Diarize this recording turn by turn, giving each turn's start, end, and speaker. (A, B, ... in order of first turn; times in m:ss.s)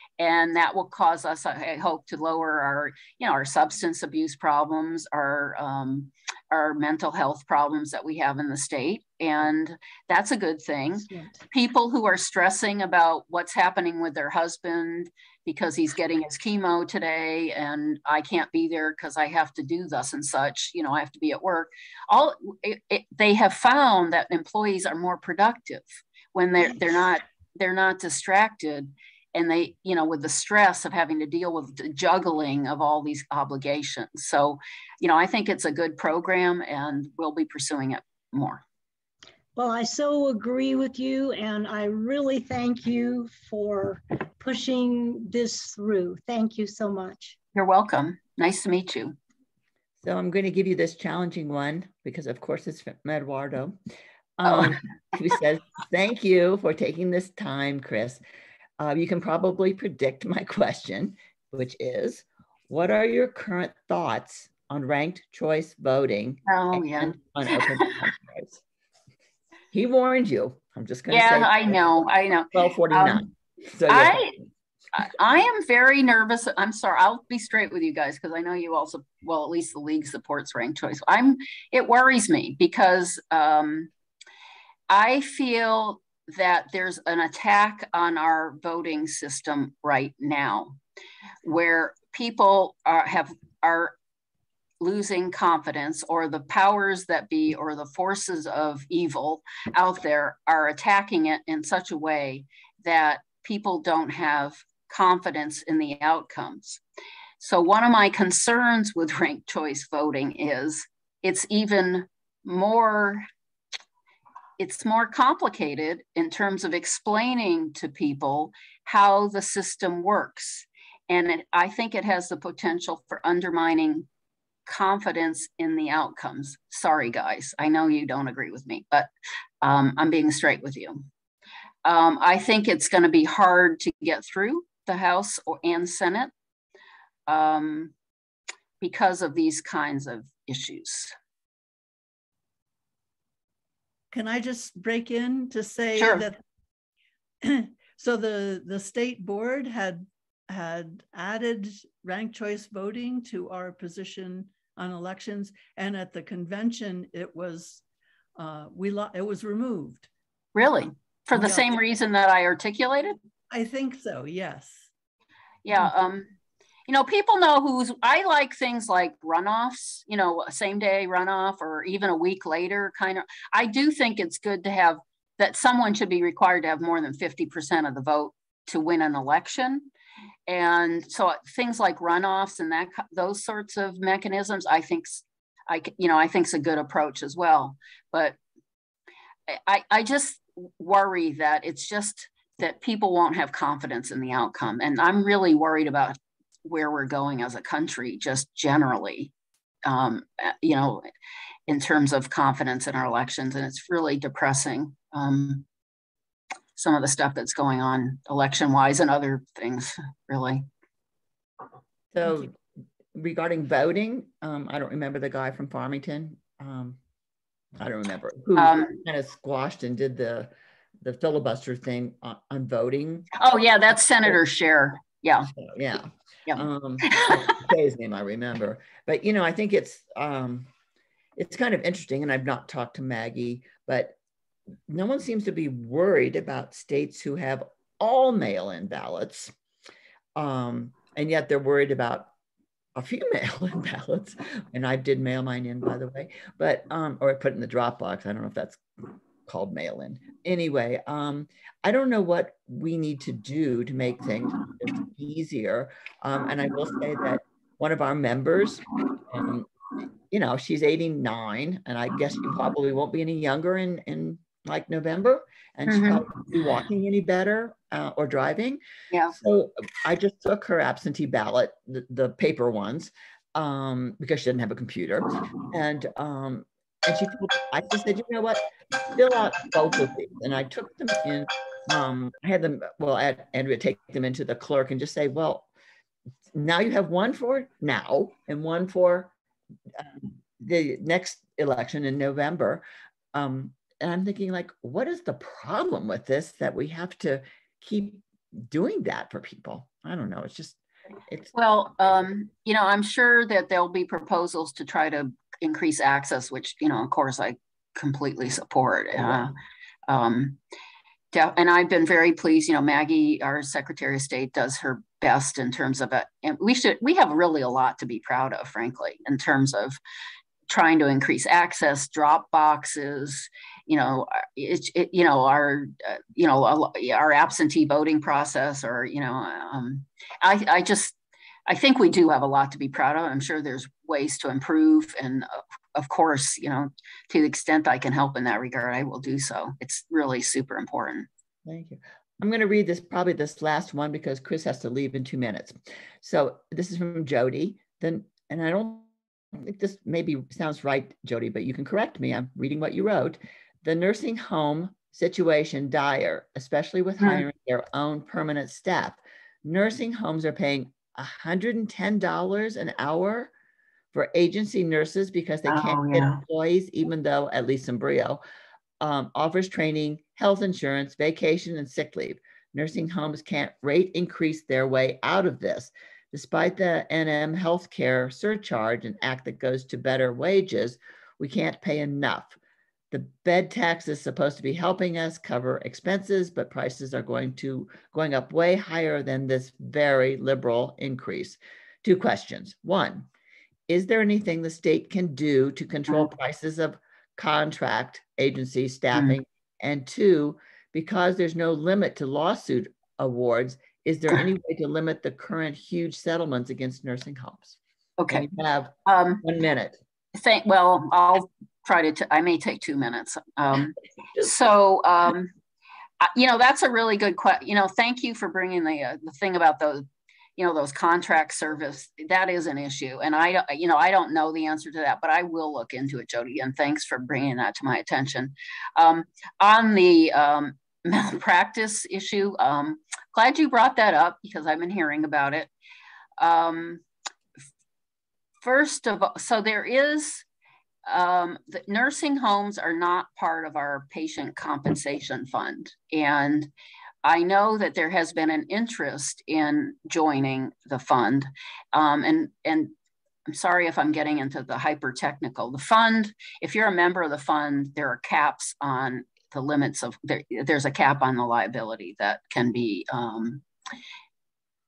0:00.2-0:38.6 A
0:39.6-0:47.4 B
0:47.6-0:49.2 A
0:50.0-0:53.8 C
0:54.4-0:58.2 C
0:58.8-1:08.6 C
1:06.5-1:07.9 A
1:09.7-1:11.8 C
1:11.1-1:13.2 A
1:12.5-1:14.2 C
1:13.9-1:14.4 A
1:14.9-1:23.9 A
1:24.9-1:30.8 A
1:31.4-1:34.0 A
1:34.8-1:46.8 A
1:47.4-1:53.3 A
1:54.6-2:04.1 A
2:04.7-2:09.1 A
2:09.6-2:11.0 A
2:11.8-2:16.3 A
2:17.3-2:17.9 A
2:18.8-2:21.1 A
2:24.1-2:26.4 D
2:26.0-2:26.3 A
2:27.4-2:37.8 D
2:38.4-2:40.1 D
2:40.6-2:43.2 A
2:41.3-2:41.8 D
2:43.5-2:44.9 D
2:45.6-2:46.3 A
2:46.9-2:59.9 A
3:00.5-3:08.4 A
3:09.5-3:19.3 A
3:19.9-3:21.1 A
3:21.7-3:25.7 A
3:26.8-3:30.7 A
3:32.1-3:32.6 C
3:33.2-3:37.0 C
3:37.8-3:40.5 C
3:38.6-3:39.0 A
3:41.0-3:43.3 C
3:43.4-3:45.5 A
3:45.5-3:50.7 C
3:46.5-3:47.4 A
3:51.4-3:54.2 C
3:54.9-3:59.5 C
4:00.4-4:02.3 C
4:03.0-4:08.8 C
4:09.5-4:19.7 C
4:20.3-4:28.8 C
4:25.9-4:26.2 A
4:29.3-4:45.7 C
4:46.5-4:49.3 C
4:50.0-5:01.5 C
5:01.5-5:09.5 A
5:10.1-5:10.6 A
5:11.3-5:20.0 A
5:20.7-5:31.2 A
5:31.7-5:41.3 A
5:41.7-6:03.5 C
5:57.2-5:57.5 A
6:04.1-6:08.4 C
6:05.7-6:06.4 A
6:09.0-6:22.6 C
6:23.1-6:33.3 C
6:33.9-6:47.8 C
6:48.2-6:48.4 A
6:48.3-6:50.0 C
6:49.1-6:49.4 A
6:50.4-6:55.5 A
6:56.2-7:15.7 A
7:16.4-7:17.0 A
7:18.6-7:20.4 A
7:21.1-7:26.7 A
7:27.2-7:32.9 A
7:33.5-7:43.6 A